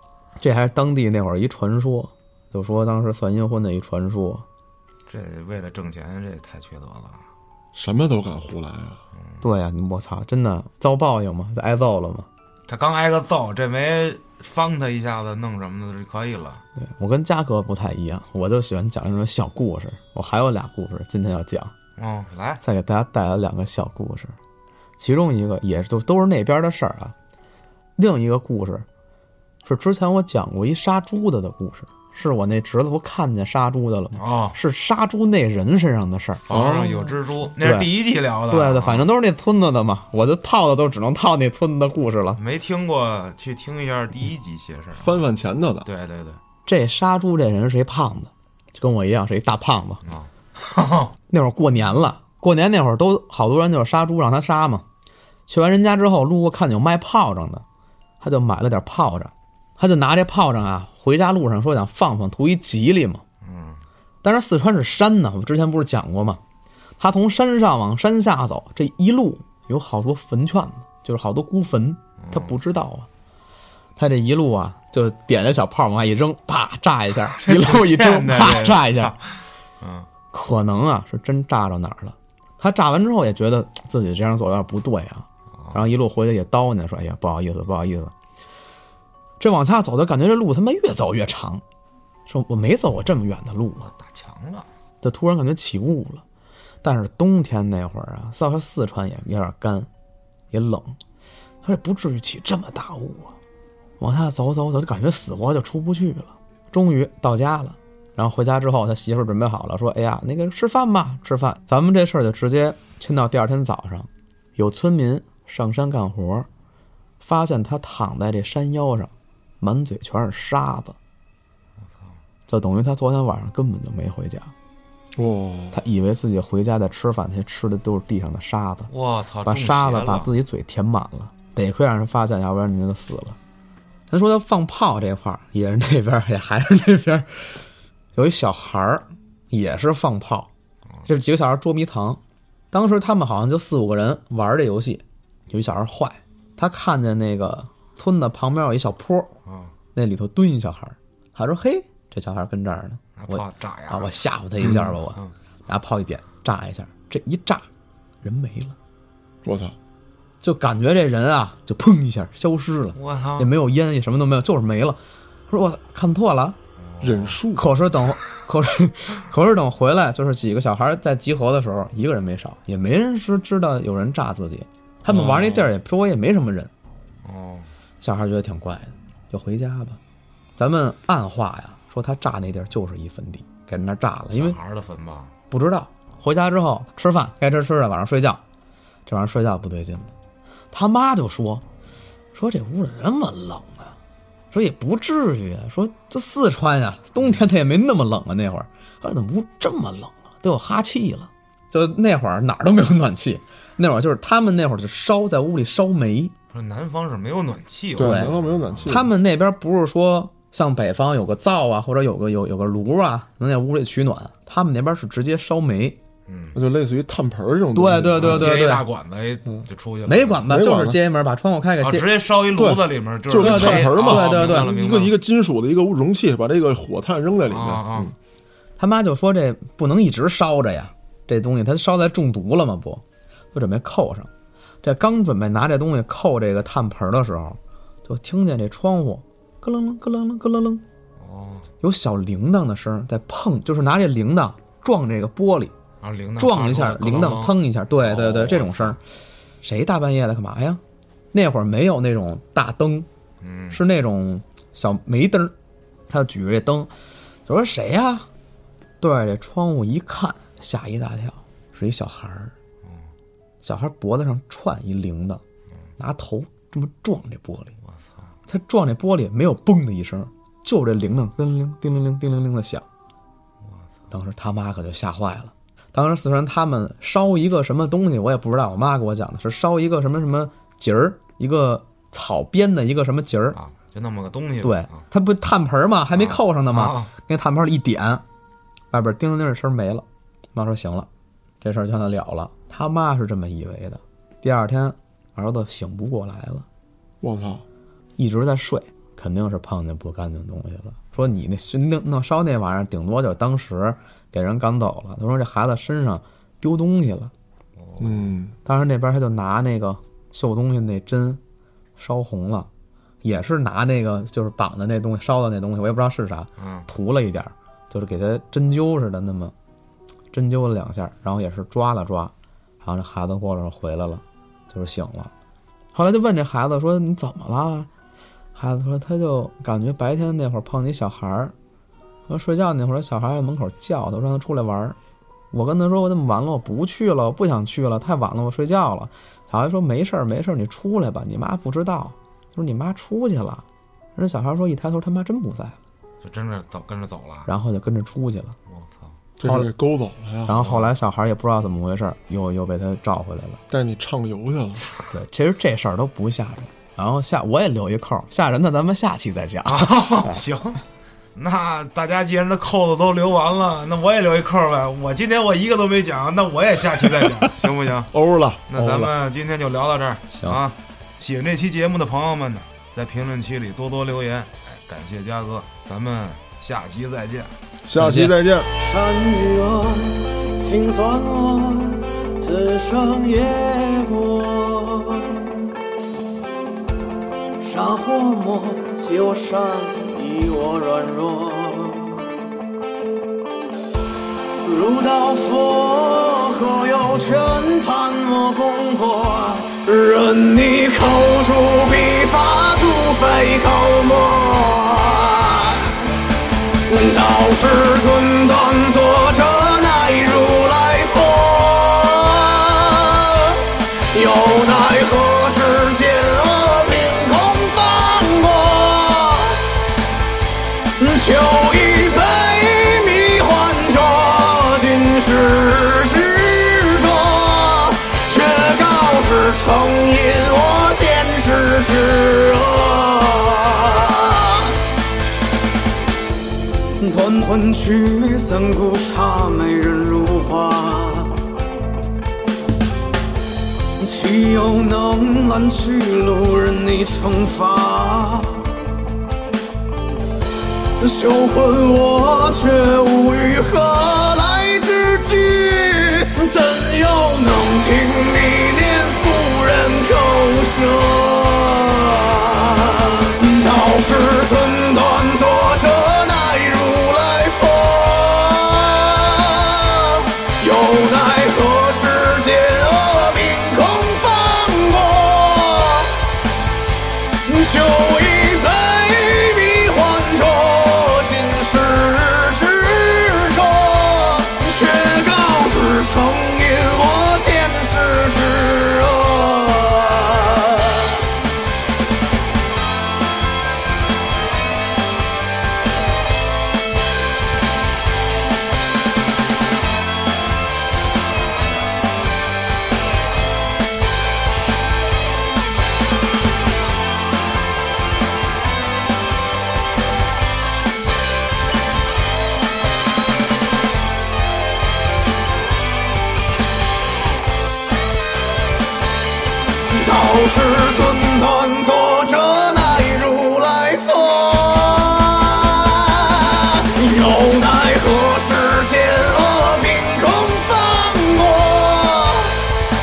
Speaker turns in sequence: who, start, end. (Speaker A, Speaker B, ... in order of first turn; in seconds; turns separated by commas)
Speaker A: 0.4-4.4, Speaker B: 5.1-7.2, Speaker C: 7.7-9.0, Speaker B: 9.1-9.4, Speaker A: 9.4-12.3, Speaker B: 12.7-16.6, Speaker A: 16.8-21.7, Speaker B: 22.0-22.6, Speaker A: 22.6-24.4, Speaker A: 25.0-27.1, Speaker A: 28.0-28.9, Speaker A: 29.6-36.4, Speaker B: 34.1-34.6, Speaker B: 36.5-39.1, Speaker C: 36.5-37.1, Speaker A: 37.6-37.9, Speaker A: 38.5-42.4, Speaker B: 42.4-45.2, Speaker C: 45.0-45.9, Speaker B: 45.8-46.4, Speaker A: 46.6-50.0, Speaker B: 50.0-51.1, Speaker A: 51.3-54.8, Speaker A: 55.5-57.6, Speaker A: 58.2-63.2, Speaker B: 63.4-63.8, Speaker A: 64.2-66.4, Speaker A: 67.0-73.1, Speaker B: 72.2-72.5, Speaker A: 74.0-79.1, Speaker B: 77.3-80.1, Speaker A: 80.3-88.1, Speaker B: 85.5-85.8, Speaker A: 89.4-91.6, Speaker A: 92.3-93.8, Speaker B: 93.8-94.7, Speaker A: 95.0-96.2, Speaker A: 96.8-99.9, Speaker A: 100.5-101.0, Speaker A: 101.6-103.3, Speaker A: 104.0-116.5, Speaker A: 117.2-121.0, Speaker A: 122.5-124.5, Speaker C: 125.2-125.8, Speaker A: 125.7-128.9, Speaker B: 128.9-130.3, Speaker A: 129.4-133.4, Speaker A: 134.1-137.6, Speaker A: 138.1-140.5, Speaker A: 141.1-149.3, Speaker B: 149.4-149.7, Speaker A: 149.9-157.7, Speaker B: 153.2-154.2, Speaker B: 154.7-155.3, Speaker A: 158.2-158.8, Speaker C: 159.4-159.8, Speaker A: 160.4-166.6, Speaker B: 162.9-163.5, Speaker B: 166.8-167.4, Speaker C: 167.0-167.7, Speaker A: 167.5-176.7, Speaker B: 175.1-175.7, Speaker B: 177.2-177.7, Speaker A: 178.0-180.0, Speaker A: 180.6-184.6, Speaker B: 184.3-185.3, Speaker A: 185.5-188.4, Speaker A: 189.1-190.1, Speaker A: 190.7-191.6, Speaker A: 192.3-193.9, Speaker A: 194.5-206.3, Speaker B: 197.2-197.4, Speaker B: 206.5-208.9, Speaker C: 208.0-209.1, Speaker A: 208.0-208.3, Speaker A: 208.9-216.0, Speaker B: 216.3-216.6, Speaker C: 216.5-218.5, Speaker A: 217.7-218.8, Speaker B: 218.2-220.5, Speaker A: 220.1-222.1, Speaker C: 220.5-221.0, Speaker B: 221.8-225.2, Speaker C: 222.6-228.1, Speaker A: 223.3-224.7, Speaker B: 227.5-228.1, Speaker A: 228.8-234.3, Speaker A: 234.8-240.8, Speaker B: 241.2-241.7, Speaker A: 241.8-245.7, Speaker B: 246.0-249.0, Speaker A: 246.4-249.0, Speaker A: 249.6-250.8, Speaker A: 251.3-253.1, Speaker B: 253.4-253.8, Speaker A: 253.7-255.5, Speaker A: 256.1-256.9, Speaker A: 257.4-258.3, Speaker A: 259.0-262.5, Speaker A: 263.6-265.4, Speaker A: 266.0-267.7, Speaker B: 267.8-268.2, Speaker A: 268.5-272.8, Speaker A: 274.1-283.6, Speaker B: 283.5-285.0, Speaker A: 284.6-288.2, Speaker B: 286.1-287.1, Speaker A: 288.9-291.1, Speaker A: 291.6-296.6, Speaker C: 297.2-297.6, Speaker A: 298.2-307.3, Speaker B: 307.8-308.3, Speaker C: 308.0-308.5, Speaker A: 308.6-311.4, Speaker A: 312.0-312.7, Speaker A: 313.2-319.5, Speaker B: 316.6-316.9, Speaker A: 320.3-325.3, Speaker A: 325.9-327.9, Speaker A: 328.5-331.5, Speaker A: 332.3-335.0, Speaker A: 335.5-345.8, Speaker B: 346.2-347.5, Speaker A: 347.5-348.5, Speaker B: 348.7-349.2, Speaker C: 349.4-350.6, Speaker A: 349.4-349.7, Speaker A: 350.5-353.6, Speaker B: 350.5-350.9, Speaker C: 353.7-354.8, Speaker A: 355.1-360.4, Speaker B: 359.7-360.8, Speaker B: 361.3-368.1, Speaker C: 368.1-369.1, Speaker B: 368.7-377.5, Speaker A: 370.3-370.6, Speaker C: 377.8-378.7, Speaker A: 377.9-378.3, Speaker D: 378.8-385.7, Speaker D: 387.6-392.3, Speaker D: 394.6-406.0, Speaker D: 406.9-419.8, Speaker D: 421.0-434.8, Speaker D: 437.0-441.5, Speaker D: 444.0-448.8, Speaker D: 451.0-476.2, Speaker D: 477.4-491.2, Speaker D: 519.9-532.6